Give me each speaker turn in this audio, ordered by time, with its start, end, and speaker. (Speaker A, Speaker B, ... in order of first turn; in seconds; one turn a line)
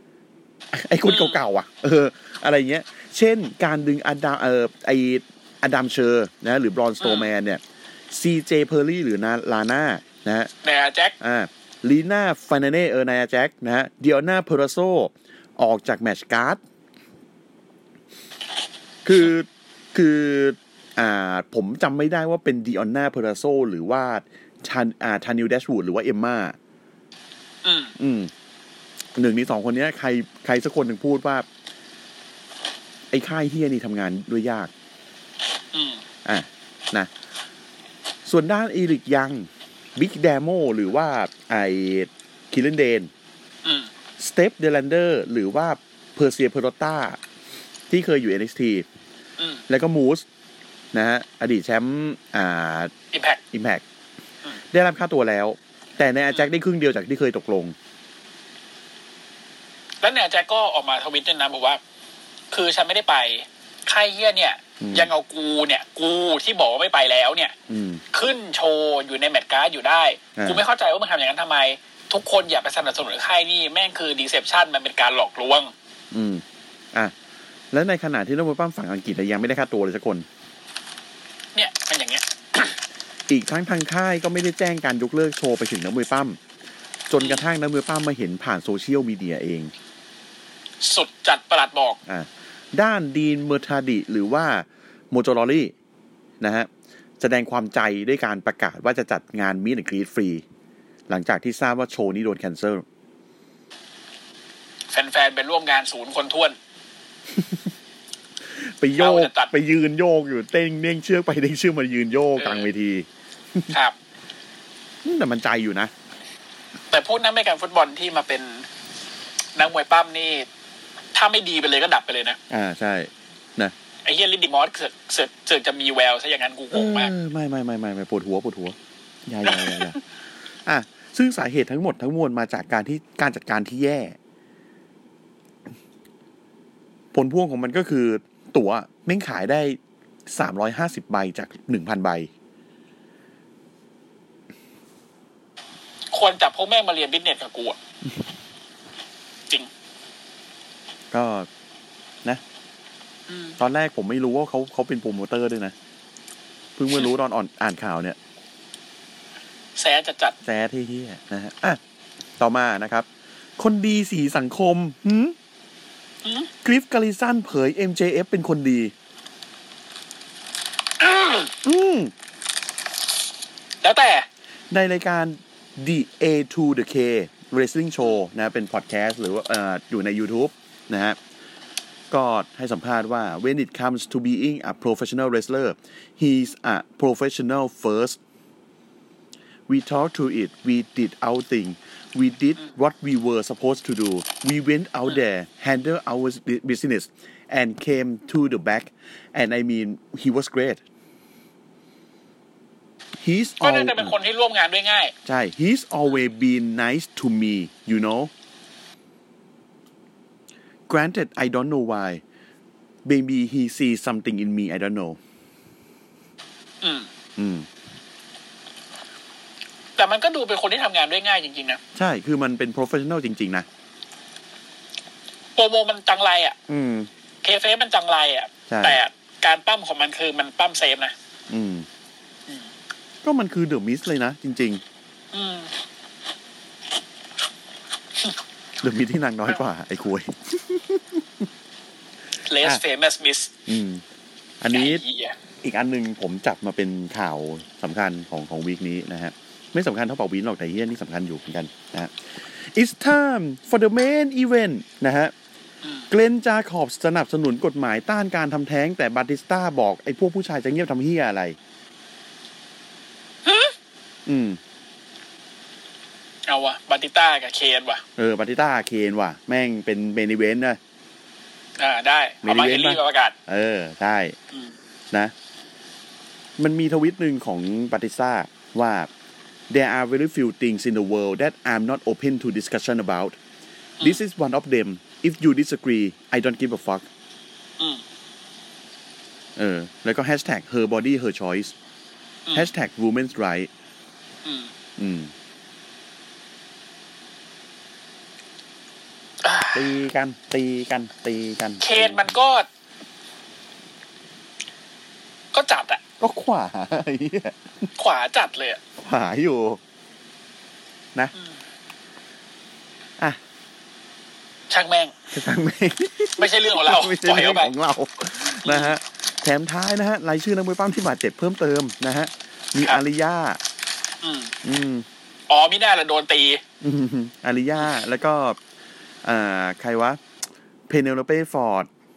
Speaker A: 0.7-10.5
Speaker B: 1.1-1.4
Speaker B: 7.0-7.3
Speaker B: 10.6-11.1
Speaker A: 11.2-16.6
Speaker A: 19.0-26.6
Speaker B: 27.6-27.9
Speaker A: 28.0-28.3
Speaker A: 29.1-31.4
Speaker A: 33.1-34.7
Speaker B: 35.7-36.0
Speaker A: 36.2-37.1
Speaker A: 38.2-43.1
Speaker B: 43.6-43.9
Speaker A: 44.2-47.2
Speaker A: 47.9-48.9
Speaker B: 49.4-49.6
Speaker A: 49.7-50.2
Speaker A: 50.9-52.9
Speaker B: 53.1-53.4
Speaker A: 53.5-53.8
Speaker A: 54.7-57.8
Speaker B: 60.0-61.8
Speaker B: 62.5-67.5
Speaker A: 64.8-65.1
Speaker A: 67.7-68.0
Speaker B: 68.1-75.7
Speaker A: 70.3-70.6
Speaker A: 76.1-77.1
Speaker A: 77.7-80.2
Speaker B: 81.5-82.8
Speaker A: 83.3-86.4
Speaker A: 87.1-89.7
Speaker B: 87.2-87.5
Speaker B: 90.8-92.0
Speaker A: 92.0-95.7
Speaker A: 96.4-96.7
Speaker A: 97.2-100.4
Speaker A: 101.1-102.8
Speaker B: 104.9-106.6
Speaker A: 107.3-107.6
Speaker A: 108.5-113.7
Speaker B: 109.0-109.5
Speaker B: 112.4-112.7
Speaker B: 113.7-114.0
Speaker A: 115.0-115.9
Speaker B: 116.9-118.7
Speaker B: 119.5-120.5
Speaker B: 121.1-122.4
Speaker A: 122.5-123.7
Speaker B: 124.0-127.1
Speaker A: 126.7-130.0
Speaker B: 129.4-129.9
Speaker A: 130.7-134.2
Speaker A: 137.1-142.3
Speaker B: 146.1-147.8
Speaker A: 151.1-151.5
Speaker B: 153.3-153.6
Speaker A: 153.6-155.7
Speaker A: 156.8-158.2
Speaker B: 159.8-160.3
Speaker A: 160.4-161.8
Speaker A: 162.4-163.1
Speaker A: 163.6-165.3
Speaker B: 166.2-166.5
Speaker A: 166.6-168.9
Speaker B: 171.0-171.5
Speaker A: 171.6-172.1
Speaker B: 173.8-174.2
Speaker A: 174.7-181.2
Speaker A: 182.1-188.2
Speaker A: 189.7-200.8
Speaker A: 203.2-204.1
Speaker B: 203.6-205.1
Speaker A: 205.2-208.3
Speaker A: 210.9-212.2
Speaker A: 213.0-215.2
Speaker B: 216.8-217.1
Speaker A: 217.3-217.7
Speaker B: 220.0-221.8
Speaker A: 221.9-223.7
Speaker B: 225.6-226.6
Speaker A: 226.7-227.1
Speaker B: 227.4-231.1
Speaker A: 228.7-229.0
Speaker A: 231.5-231.9
Speaker A: 233.2-234.8
Speaker B: 235.3-235.7
Speaker A: 238.8-241.5
Speaker B: 242.5-243.5
Speaker A: 243.7-244.0
Speaker A: 244.6-245.0
Speaker B: 244.7-245.3
Speaker A: 245.6-255.3
Speaker B: 255.8-256.1
Speaker A: 256.1-261.6
Speaker B: 263.4-263.7
Speaker A: 264.2-264.6
Speaker B: 266.5-268.0
Speaker A: 268.2-270.8
Speaker B: 271.8-273.3
Speaker A: 272.4-274.4
Speaker A: 276.6-279.1
Speaker A: 279.7-283.4
Speaker A: 284.0-287.1
Speaker A: 289.6-291.7
Speaker A: 292.5-293.7
Speaker B: 294.4-294.7
Speaker A: 295.0-295.3
Speaker B: 299.4-299.8
Speaker A: 299.7-302.3
Speaker B: 301.8-302.7
Speaker B: 305.5-306.0
Speaker A: 306.2-307.9
Speaker B: 308.0-308.8
Speaker A: 309.0-309.8
Speaker B: 314.7-315.1
Speaker A: 315.3-323.6
Speaker B: 316.4-317.7
Speaker B: 318.6-318.9
Speaker B: 324.2-324.5
Speaker A: 324.6-325.1
Speaker B: 325.5-326.6
Speaker A: 326.8-328.6
Speaker A: 329.2-330.2
Speaker A: 330.9-331.9